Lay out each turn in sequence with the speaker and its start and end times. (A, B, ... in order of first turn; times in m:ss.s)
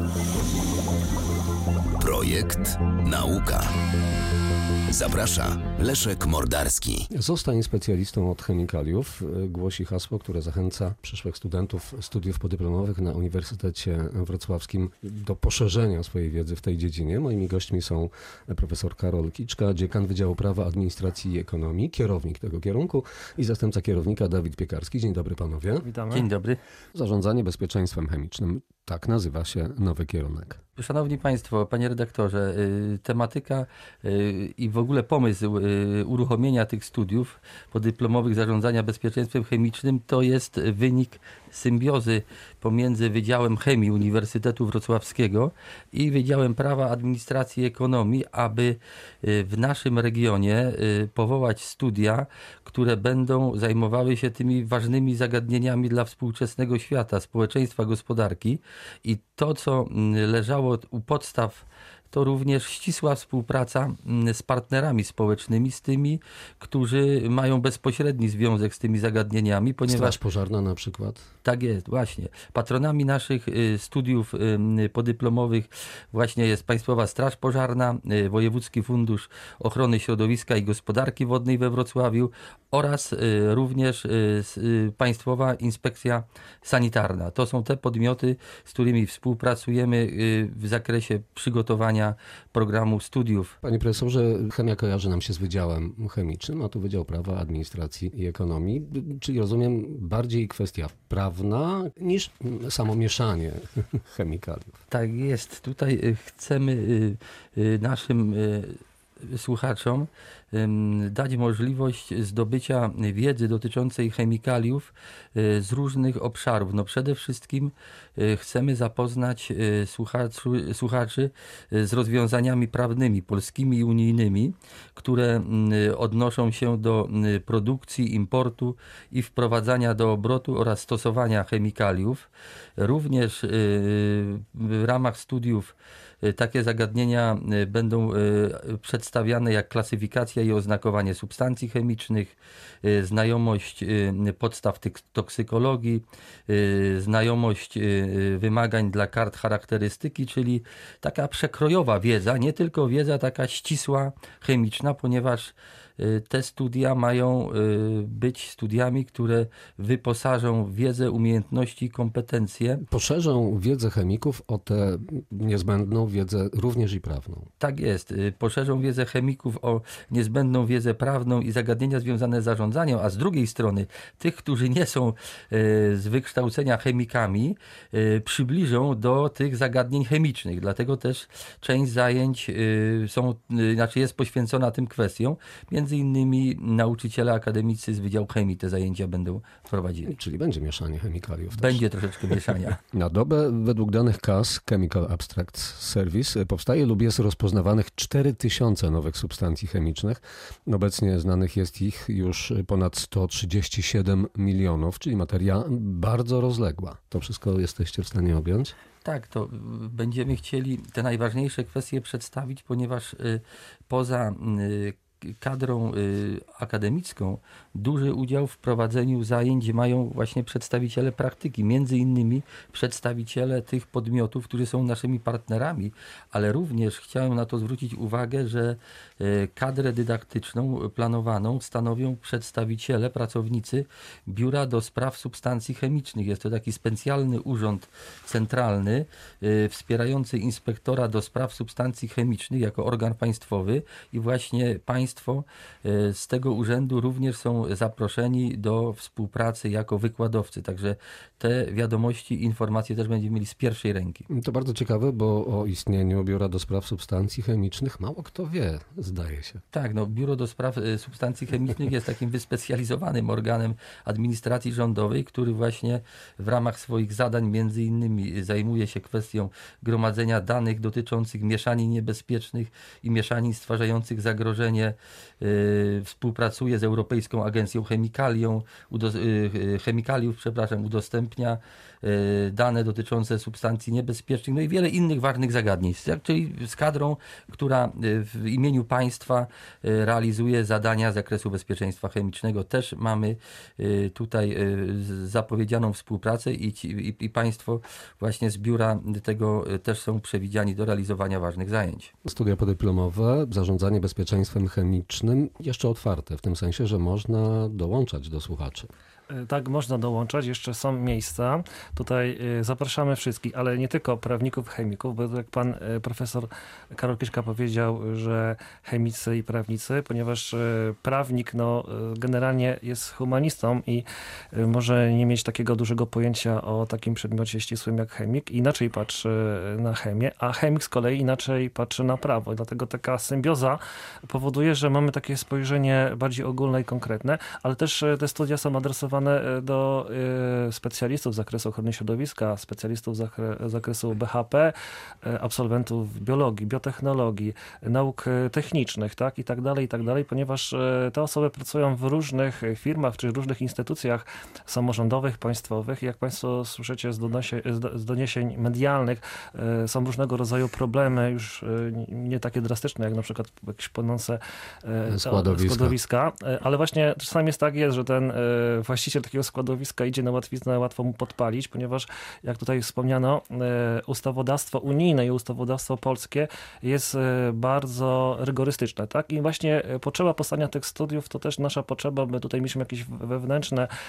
0:02.0-0:03.7 A
0:04.9-0:07.1 A
0:07.1-0:25.8 B
0:25.8-0:26.3 C
0:26.1-0:26.6 D
0:26.9-0:30.6 B
0:30.8-1:10.2 D
1:09.9-1:11.3 B
1:11.4-1:33.5 D
1:33.6-1:44.8 B
1:44.9-2:42.8 D
2:42.8-2:47.5 B
2:47.6-3:10.1 D
3:10.0-3:28.7 B
3:11.5-3:12.8 D
3:29.0-4:14.2 D
4:14.3-4:19.6 B
4:19.7-5:02.1 D
5:02.2-5:08.9 B
5:09.3-6:23.9 C
6:05.1-6:06.0 B